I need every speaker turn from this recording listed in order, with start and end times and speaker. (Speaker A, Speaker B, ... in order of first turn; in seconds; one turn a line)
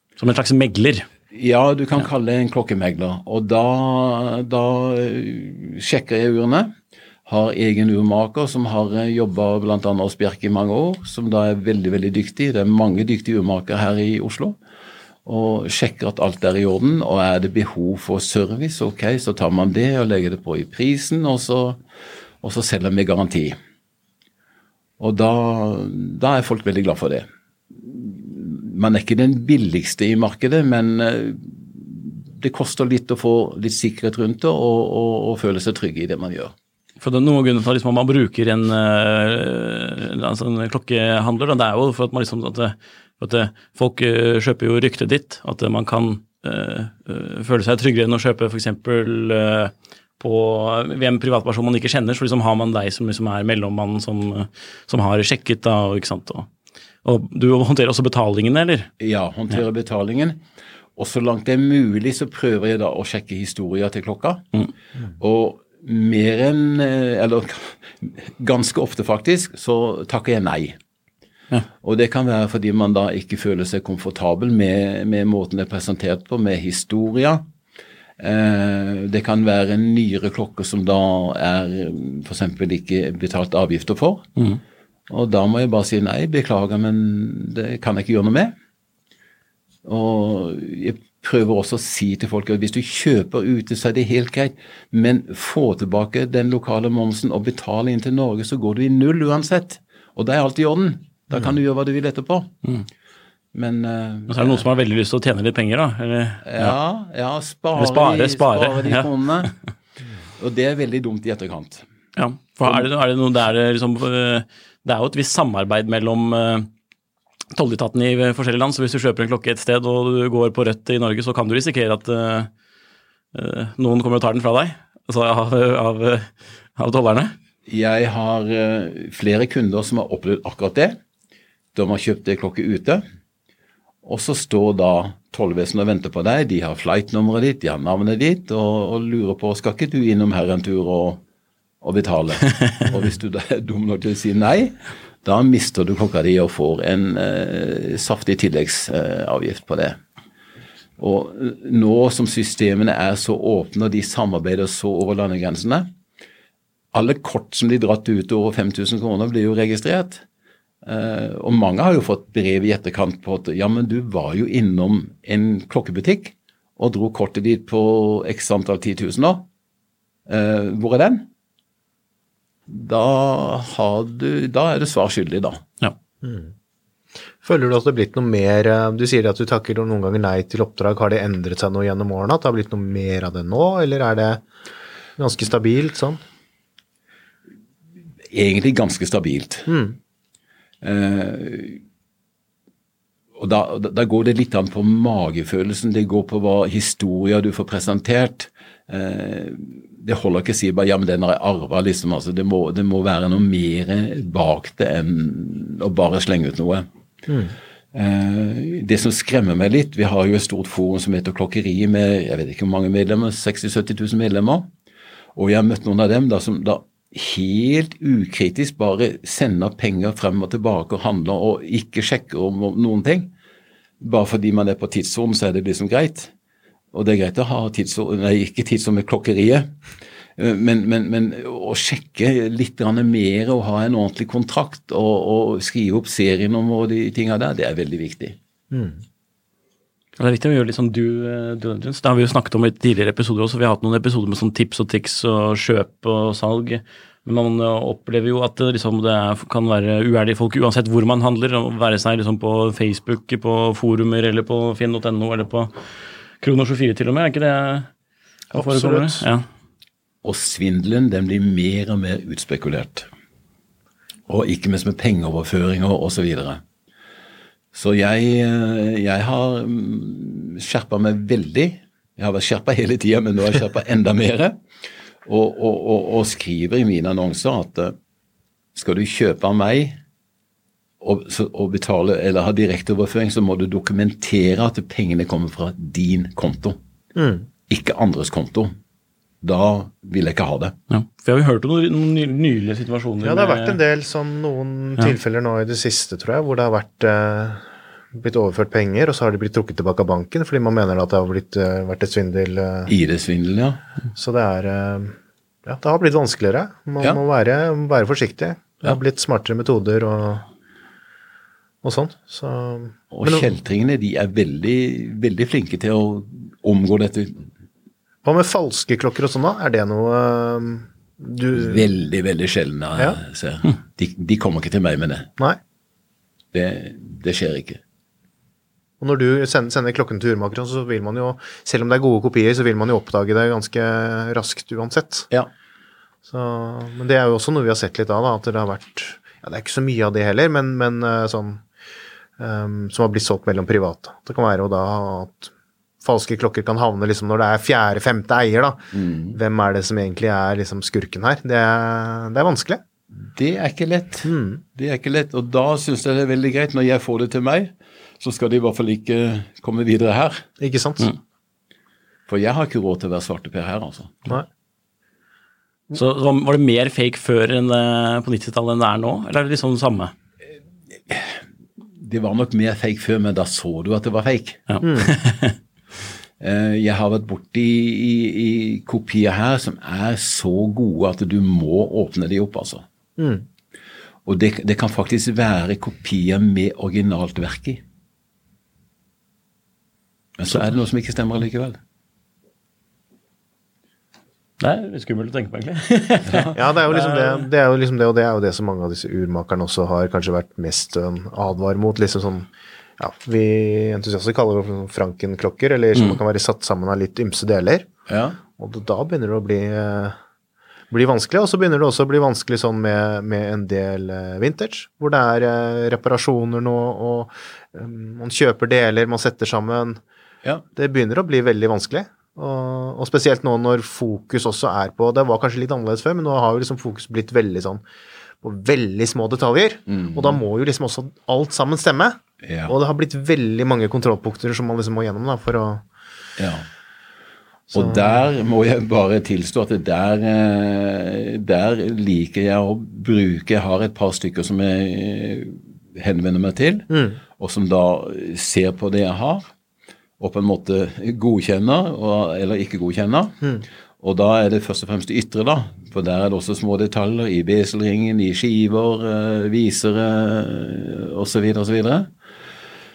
Speaker A: 0.2-1.1
Speaker B: 1.3-6.7
Speaker B: 7.2-14.6
Speaker B: 15.2-21.8
Speaker B: 22.4-23.6
Speaker B: 25.0-36.5
Speaker A: 37.0-56.5
Speaker A: 57.0-58.9
Speaker B: 59.0-60.4
Speaker B: 61.0-64.5
Speaker B: 65.2-70.8
Speaker B: 71.8-77.5
Speaker B: 78.2-84.3
Speaker B: 85.1-88.5
Speaker B: 89.8-102.5
Speaker B: 103.5-104.6
Speaker A: 104.3-106.8
Speaker B: 106.4-109.5
Speaker A: 107.8-109.1
Speaker B: 110.4-111.8
Speaker A: 112.2-116.7
Speaker A: 117.5-122.5
Speaker A: 123.3-127.3
Speaker B: 127.7-131.0
Speaker B: 131.7-133.0
Speaker B: 134.0-141.2
Speaker B: 141.8-150.0
Speaker B: 151.0-155.9
Speaker B: 156.9-160.2
Speaker B: 160.8-169.5
Speaker B: 170.3-171.3
Speaker B: 172.7-175.6
Speaker C: 176.2-176.5
Speaker C: 177.4-184.4
Speaker C: 185.2-186.2
Speaker B: 188.3-189.7
Speaker C: 189.7-190.0
Speaker B: 190.8-191.8
Speaker B: 193.4-206.9
Speaker C: 207.3-207.5
Speaker B: 207.9-214.7
Speaker B: 215.3-223.3
Speaker B: 224.0-226.3
Speaker B: 226.9-229.8
Speaker B: 230.4-238.3
Speaker C: 238.7-239.0
Speaker A: 240.2-255.7
Speaker A: 256.4-257.9
Speaker C: 258.5-259.3
Speaker A: 258.5-259.4
Speaker B: 260.2-263.1
Speaker B: 264.3-266.6
Speaker B: 267.7-274.6
Speaker B: 275.2-277.9
Speaker B: 278.7-280.0
Speaker B: 281.0-286.8
Speaker C: 287.1-287.5
Speaker B: 287.7-288.7
Speaker B: 289.4-290.7
Speaker A: 290.9-293.8
Speaker C: 293.2-302.9
Speaker B: 302.9-303.8
Speaker C: 304.1-310.5
Speaker C: 311.8-313.5
Speaker B: 313.1-317.5
Speaker C: 318.2-321.9
Speaker B: 321.5-325.3
Speaker B: 326.5-327.8
Speaker C: 329.0-335.3
Speaker C: 336.3-341.6
Speaker C: 342.4-352.8
Speaker B: 348.9-349.4
Speaker B: 353.2-360.4
Speaker C: 354.2-354.6
Speaker C: 360.6-361.1
Speaker B: 362.3-364.4
Speaker A: 365.9-370.1
Speaker B: 371.1-371.4
Speaker B: 372.0-374.6
Speaker A: 374.7-375.6
Speaker C: 374.8-375.1
Speaker B: 376.4-382.8
Speaker C: 383.2-383.4
Speaker B: 384.2-387.8
Speaker B: 390.4-391.8
Speaker A: 394.6-397.4
Speaker B: 396.3-396.6
Speaker C: 396.5-407.9
Speaker B: 408.1-408.4
Speaker C: 408.6-410.2
Speaker C: 410.9-420.0
Speaker C: 420.8-427.8
Speaker C: 428.4-435.9
Speaker B: 429.9-430.4
Speaker B: 432.4-432.7
Speaker B: 436.4-436.6
Speaker C: 437.7-438.2
Speaker B: 437.7-449.5
Speaker C: 446.9-447.2
Speaker B: 450.2-462.1